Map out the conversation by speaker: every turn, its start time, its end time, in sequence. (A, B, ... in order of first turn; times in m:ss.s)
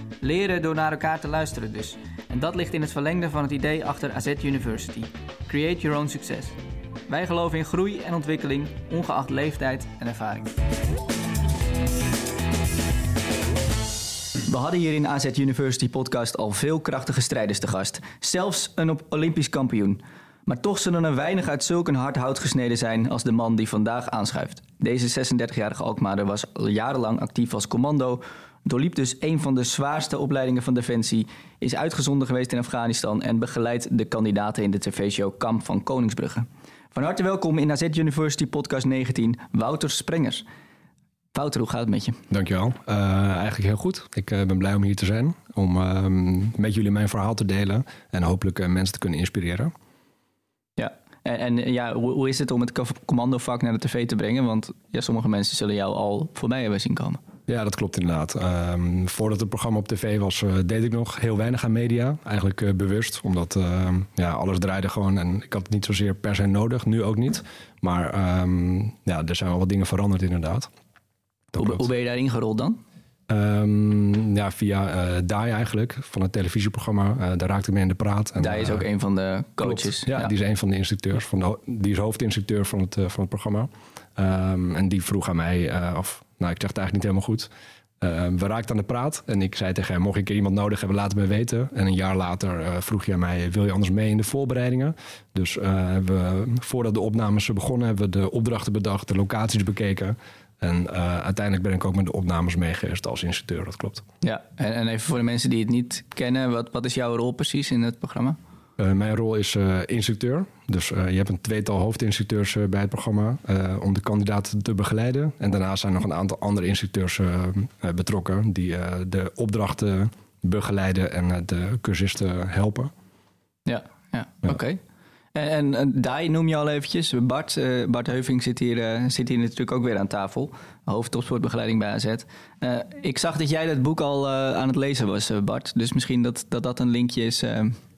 0:00.2-0:10.6 A
0:14.5-0:40.4 A
0:41.3-0:42.2 A
0:42.3-0:49.7 B
0:50.8-0:57.2 A
0:57.5-1:10.7 B
1:11.5-1:11.8 B
1:11.6-1:12.8 A
1:13.3-1:18.8 B
1:18.4-1:20.3 A
1:19.6-1:44.1 B
1:44.2-1:48.4 A
1:48.8-2:02.9 B
2:03.7-2:04.8 A
2:05.3-2:17.8 A